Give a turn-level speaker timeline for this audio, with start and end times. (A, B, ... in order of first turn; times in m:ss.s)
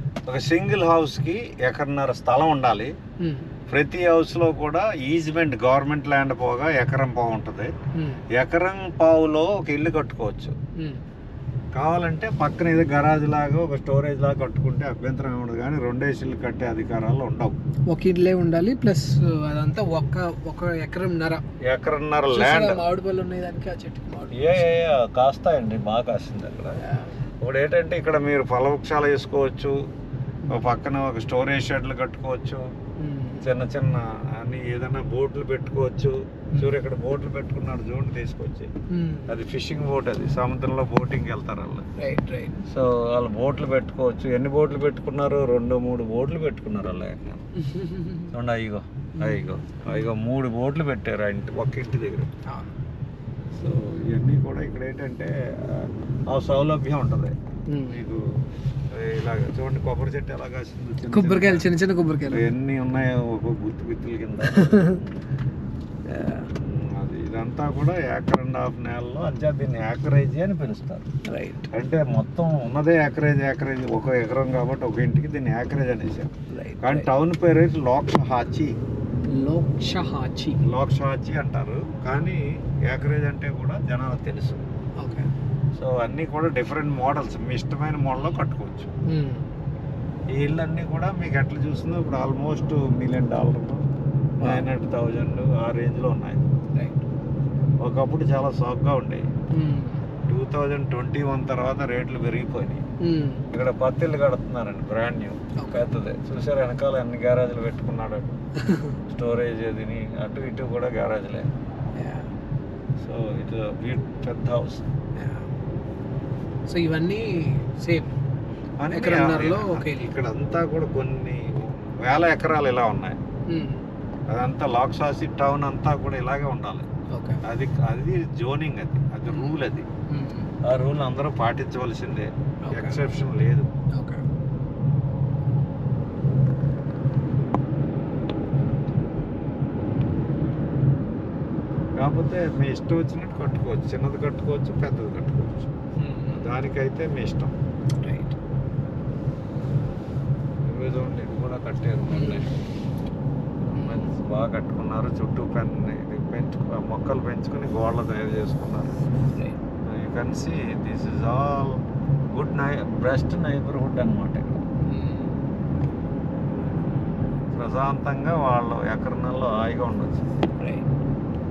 0:00.2-0:02.9 A
0:03.2-0:03.5 B
0:03.7-0:07.7 A
0:07.9-0:08.2 B
0:08.3-0:10.6 A
0:10.8-0:11.0 B
0:11.7-0:17.6 A
0:17.9-0:21.4 B
0:21.6-0:22.8 A
0:22.3-0:24.6 B
0:24.3-0:26.8 A
0:26.8-0:27.1 B
0:27.4-0:29.8 A
0:30.5-0:32.6 A
0:33.0-0:33.5 B
0:33.4-0:38.7 A
0:38.9-0:39.4 B
0:39.3-0:41.8 A
0:42.0-0:42.6 B
0:42.7-0:47.5 A
0:47.6-0:48.3 B
0:48.3-0:52.3 A
0:49.2-0:49.9 B
0:52.5-0:52.8 B
0:53.5-0:57.3 A
0:57.7-0:58.0 B
0:57.9-0:58.2 A
0:58.9-1:01.7 A
1:01.1-1:02.5 B
1:02.3-1:05.1 A
1:04.5-1:05.0 B
1:06.1-1:06.5 B
1:06.6-1:11.1 A
1:11.2-1:11.7 B
1:11.7-1:18.7 A
1:16.5-1:17.1 B
1:19.3-1:20.6 B
1:20.6-1:24.6 A
1:25.0-1:25.3 B
1:25.7-1:28.9 A
1:29.1-1:29.5 B
1:30.3-1:33.8 A
1:34.4-1:34.7 B
1:34.4-1:36.6 A
1:36.7-1:37.0 B
1:37.8-1:39.3 A
1:39.5-1:40.1 B
1:40.3-1:42.8 A
1:43.0-1:43.5 B
1:43.5-1:48.4 A
1:45.6-1:45.9 B
1:48.6-1:49.0 B
1:49.1-1:51.5 A
1:51.9-1:52.3 B
1:53.0-1:54.8 A
1:55.2-1:55.5 B
1:56.7-1:58.1 B
1:58.8-2:03.2 A
1:58.9-2:00.1 B
2:03.5-2:03.8 B
2:04.3-2:06.9 A
2:07.1-2:07.4 B
2:07.4-2:09.9 A
2:09.3-2:09.6 B
2:10.1-2:10.5 B
2:10.6-2:13.7 A
2:12.7-2:13.0 B
2:13.9-2:14.2 B
2:22.0-2:25.7 A
2:26.0-2:26.5 B
2:26.3-2:27.5 A
2:28.0-2:28.4 B
2:30.6-2:32.5 A
2:32.1-2:32.5 B
2:33.6-2:39.0 A
2:33.7-2:34.1 B
2:39.3-2:39.6 B
2:39.8-2:41.8 A
2:42.3-2:44.6 A
2:44.8-2:45.4 B
2:47.5-2:50.2 A
2:50.6-2:50.8 B